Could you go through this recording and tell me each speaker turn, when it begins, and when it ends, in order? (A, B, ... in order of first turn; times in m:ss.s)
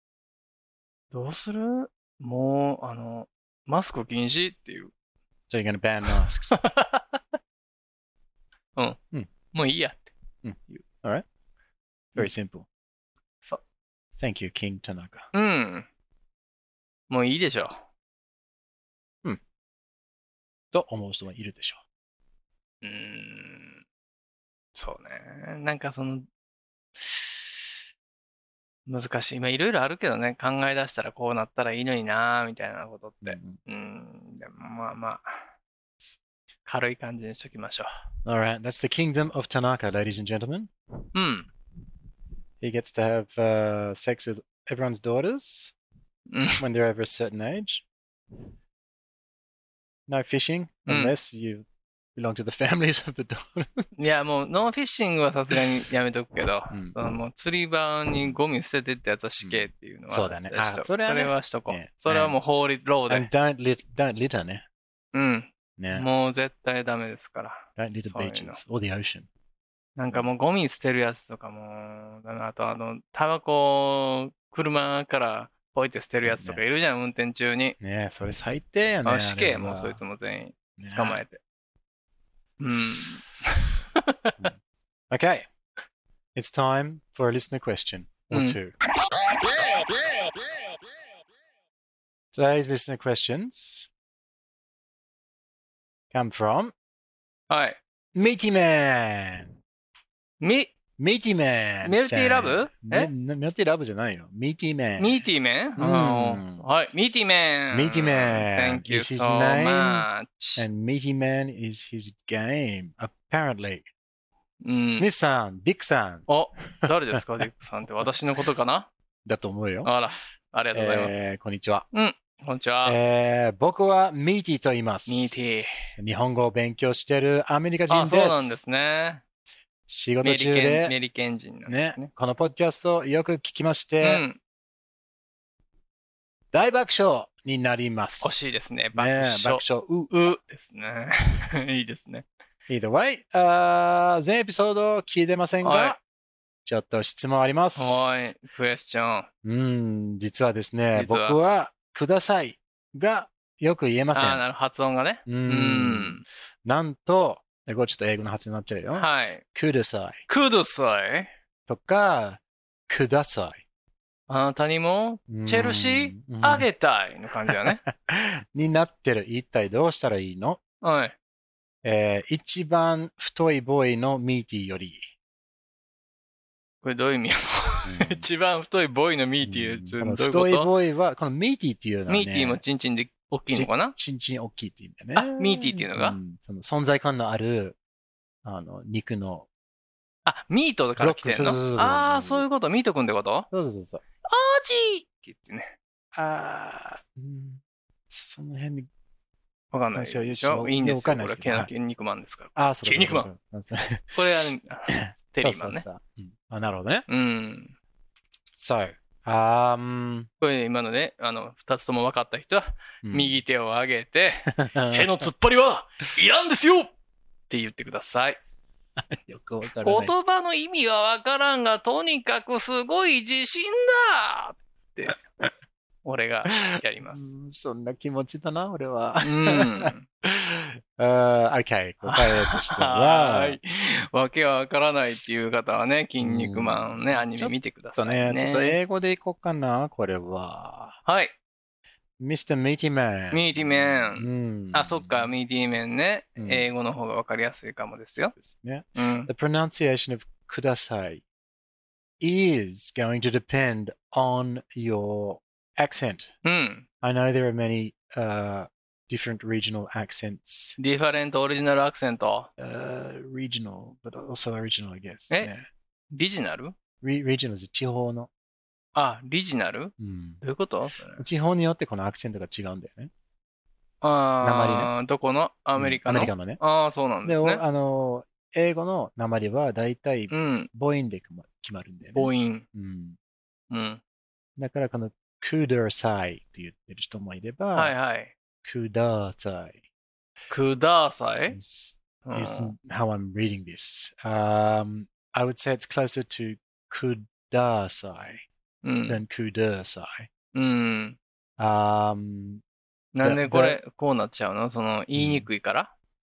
0:01.1-0:04.9 A
0:05.5-0:06.6 B
0:06.5-0:07.2 A
0:09.5-0:10.1 A
0:10.4-0:11.2 B
0:12.2-0:12.7 B
0:14.1-0:15.3 B
0:15.3-0:15.9 A
0:17.1-0:17.8 A
0:20.7-0:21.8 B
0:22.8-0:23.8 A
0:24.8-0:26.3 A
0:27.0-0:27.6 A
0:28.9-0:35.3 A
0:33.2-0:33.6 B
0:36.7-0:37.9 A
0:38.2-0:40.7 B
0:41.1-0:41.5 A
0:42.6-0:45.7 B
0:46.3-0:46.6 A
0:46.6-0:47.8 B
0:50.1-0:53.9 B
0:50.9-0:51.1 A
0:54.0-1:03.3 A
0:59.4-1:02.4 B
1:03.1-1:04.6 B
1:05.1-1:08.6 A
1:05.8-1:06.1 B
1:07.8-1:09.3 B
1:10.0-1:17.8 A
1:16.3-1:16.6 B
1:17.8-1:20.0 B
1:19.0-1:21.4 A
1:20.8-1:21.2 B
1:22.6-1:24.5 A
1:25.1-1:25.5 B
1:26.4-1:28.7 B
1:28.3-1:28.6 A
1:32.3-1:33.9 B
1:36.1-1:36.7 B
1:37.5-1:37.8 A
1:38.1-1:39.6 B
1:40.4-1:40.7 A
1:41.0-1:45.2 B
1:41.8-1:43.1 A
1:45.0-1:50.6 A
1:45.8-1:46.6 B
1:47.7-1:53.9 B
1:54.6-1:55.1 A
1:54.9-1:56.3 B
1:56.3-1:58.9 A
1:59.2-1:59.9 B
1:59.8-2:01.3 A
2:00.7-2:01.9 B
2:01.9-2:03.0 A
2:02.8-2:08.6 B
2:05.1-2:05.9 A
2:07.9-2:09.2 A
2:09.9-2:11.0 B
2:10.2-2:12.1 A
2:11.7-2:14.2 B
2:14.0-2:14.4 A
2:16.5-2:20.3 B
2:18.2-2:22.2 A
2:22.7-2:26.0 B
2:25.6-2:26.0 A
2:26.6-2:28.3 B
2:27.8-2:29.3 A
2:29.4-2:34.4 B
2:30.9-2:31.4 A
2:34.1-2:36.2 A
2:35.3-2:40.2 B
2:38.9-2:39.4 A
2:40.3-2:41.3 A
2:41.7-2:43.6 B
2:44.3-2:47.8 A
2:45.3-2:46.7 B
2:47.5-2:50.6 B
2:50.8-2:51.2 A
2:51.8-2:55.1 B
2:56.8-3:00.7 A
2:57.8-2:58.3 B
2:59.4-3:02.6 B
3:02.1-3:04.0 A
3:03.5-3:07.8 B
3:05.2-3:06.2 A
3:08.4-3:09.5 B
3:10.3-3:13.5 A
3:11.0-3:12.5 B
3:13.5-3:14.0 B
3:14.3-3:15.8 A
3:16.1-3:18.9 B
3:19.7-3:23.3 A
3:19.9-3:21.7 B
3:22.6-3:24.2 B
3:24.2-3:25.8 A
3:24.9-3:27.1 B
3:27.1-3:27.8 A
3:28.5-3:30.3 B
3:30.4-3:36.9 A
3:33.0-3:33.4 B
3:34.6-3:35.3 B
3:37.5-3:38.4 A
3:39.1-3:40.1 B
3:39.8-3:45.2 A
3:46.0-3:47.3 A
3:46.5-3:53.6 B
3:49.2-3:50.0 A
3:52.0-3:58.8 A
3:56.2-4:01.0 B
4:01.1-4:01.3 A
4:02.2-4:05.3 B
4:03.3-4:08.4 A
4:06.4-4:06.7 B
4:08.4-4:11.2 B
4:09.0-4:09.3 A
4:12.2-4:16.3 B
4:16.4-4:16.9 A
4:17.0-4:20.8 B
4:20.8-4:22.5 A
4:22.6-4:25.7 B
4:26.1-4:26.8 A
4:27.0-4:28.3 B
4:29.0-4:31.2 A
4:30.0-4:30.4 B
4:31.2-4:33.1 B
4:34.0-4:37.6 A
4:34.4-4:34.9 B
4:35.8-4:36.6 B
4:37.2-4:43.2 B
4:40.3-4:40.7 A
4:42.2-4:42.7 A
4:43.7-4:44.0 A
4:44.6-4:48.0 B
4:47.8-4:48.3 A
4:48.6-4:49.8 B
4:50.5-4:51.6 A
4:51.5-4:58.5 B
4:52.3-4:52.7 A
4:58.8-4:59.2 A
4:59.1-5:00.3 B
5:00.5-5:01.2 A
5:01.6-5:02.6 B
5:03.1-5:05.9 A
5:03.2-5:03.8 B
5:05.2-5:05.5 B